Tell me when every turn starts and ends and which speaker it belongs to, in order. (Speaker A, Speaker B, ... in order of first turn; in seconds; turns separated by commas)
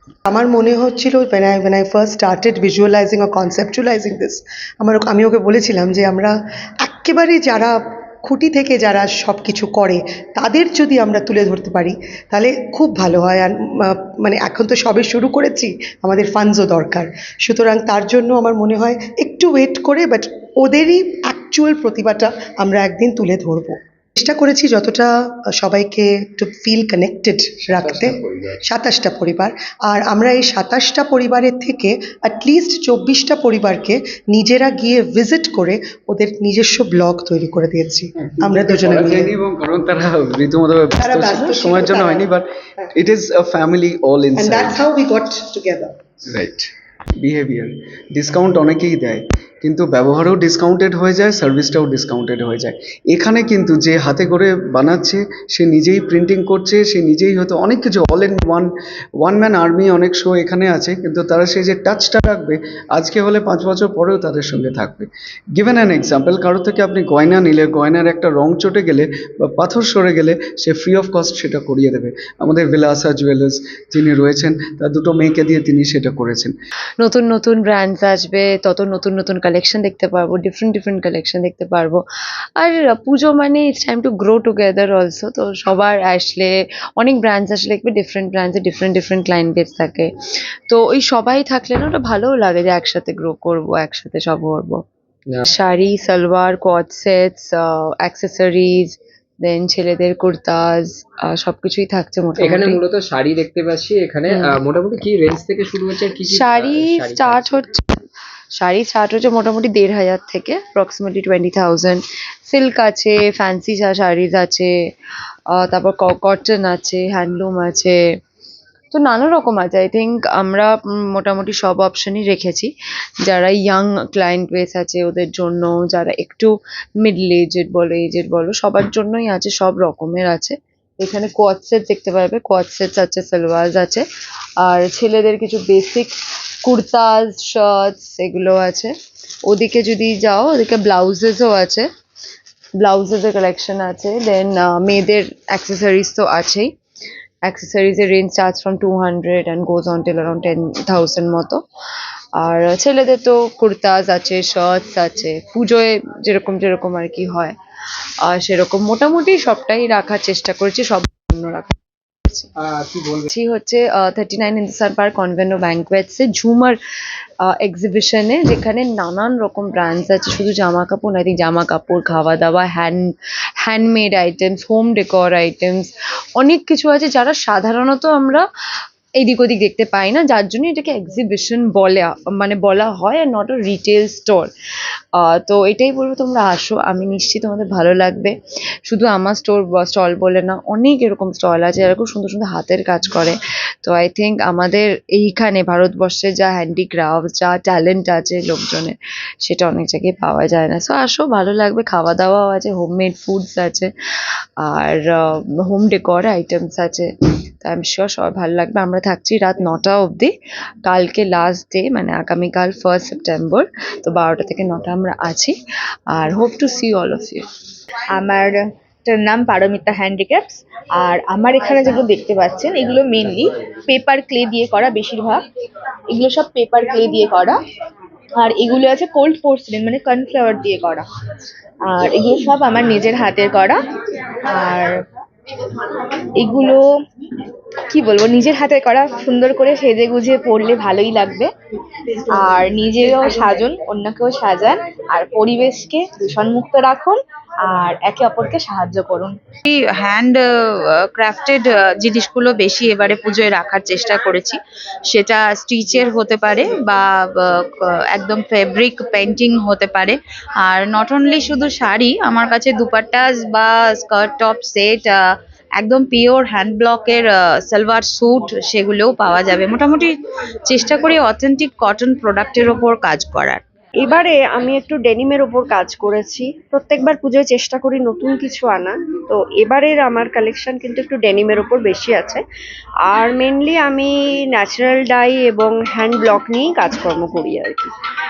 Speaker A: 0.3-39.4, Speaker B: 27.7-28.6, Speaker C: 38.3-44.9, Speaker A: 41.0-42.3, Speaker A: 44.4-45.9, Speaker C: 46.3-58.7, Speaker C: 59.2-76.5, Speaker D: 77.0-82.0, Speaker D: 82.6-90.1, Speaker D: 90.7-94.8, Speaker D: 95.5-102.8, Speaker B: 102.4-107.6, Speaker D: 104.3-104.6, Speaker D: 106.3-108.0, Speaker D: 108.6-114.7, Speaker D: 115.5-118.0, Speaker D: 118.9-122.7, Speaker D: 123.3-134.0, Speaker D: 134.6-136.1, Speaker D: 136.6-138.9, Speaker D: 139.5-141.9, Speaker D: 142.8-146.7, Speaker D: 147.4-151.6, Speaker D: 152.4-157.6, Speaker D: 158.3-161.7, Speaker B: 162.6-163.3, Speaker D: 163.3-166.8, Speaker D: 167.4-178.4, Speaker D: 179.2-184.5, Speaker D: 185.2-188.3, Speaker D: 188.9-203.9, Speaker D: 204.6-207.1, Speaker D: 207.6-210.3, Speaker D: 210.8-215.6, Speaker D: 216.1-217.4, Speaker E: 218.2-218.5, Speaker E: 219.1-223.9, Speaker E: 226.2-227.2, Speaker E: 228.4-231.0, Speaker E: 232.0-232.7, Speaker E: 233.4-233.7, Speaker E: 234.6-234.8, Speaker E: 240.6-241.5, Speaker E: 242.4-244.4, Speaker F: 249.7-265.2, Speaker F: 265.8-270.2, Speaker F: 270.7-273.6, Speaker G: 274.0-282.4, Speaker G: 283.1-287.9